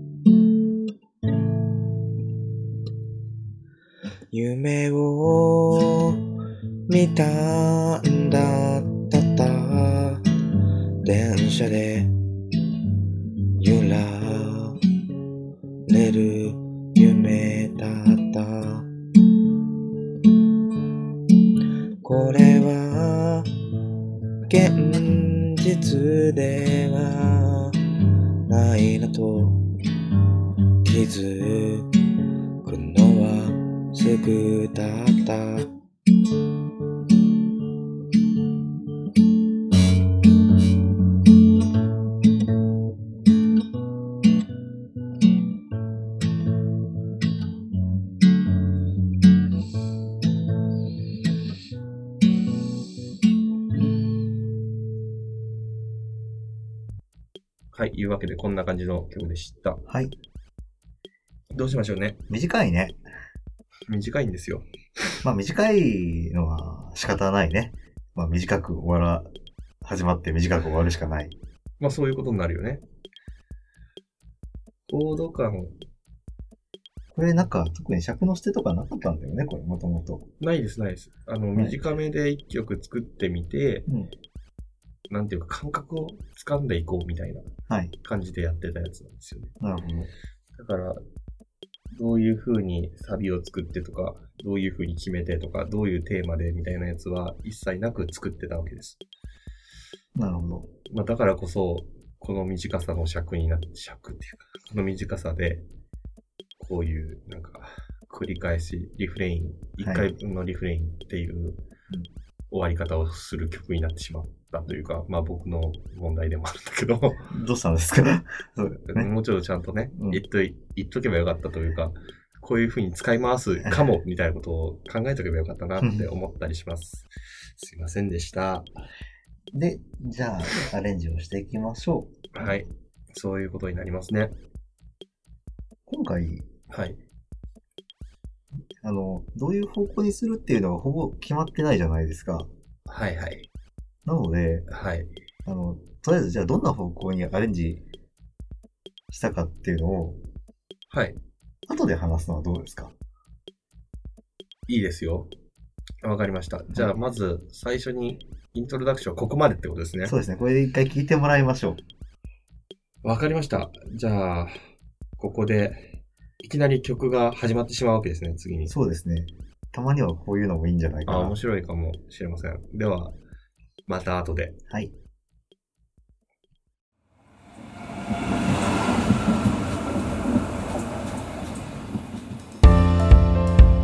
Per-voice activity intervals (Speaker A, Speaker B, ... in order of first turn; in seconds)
Speaker A: 4.3-6.2, 6.9-10.2, 11.0-12.2, 13.6-14.8, 15.9-18.9, 22.0-23.5, 24.5-27.9, 28.5-29.6, 30.8-31.9, 32.6-35.7
Speaker B: 57.7-59.8, 61.5-62.2, 63.9-65.2, 71.8-72.8, 74.9-75.7, 80.4-83.9, 85.1-87.5, 88.0-89.5, 90.5-91.0, 91.9-99.0, 100.9-105.6, 106.6-111.6, 112.5-117.3, 118.9-128.7, 132.3-134.3, 136.7-137.0, 142.9-143.5, 144.7-145.1, 150.9-151.2, 154.7-155.3, 156.0-160.2, 163.0-164.6, 165.2-168.7, 171.1-173.2, 173.9-174.6
Speaker C: 59.9-60.1, 62.3-63.0, 65.2-69.3, 69.8-71.3, 77.1-80.3, 87.7-87.9, 89.6-90.1, 100.1-100.7, 109.8-110.1, 117.3-119.1, 119.9-120.2, 123.6-123.9, 125.8-126.1, 129.5-132.5, 135.9-136.5, 138.8-142.5, 144.0-144.7, 145.4-147.8, 149.1-150.2, 151.7-152.9, 156.7-157.0, 160.0-161.8, 168.7-171.4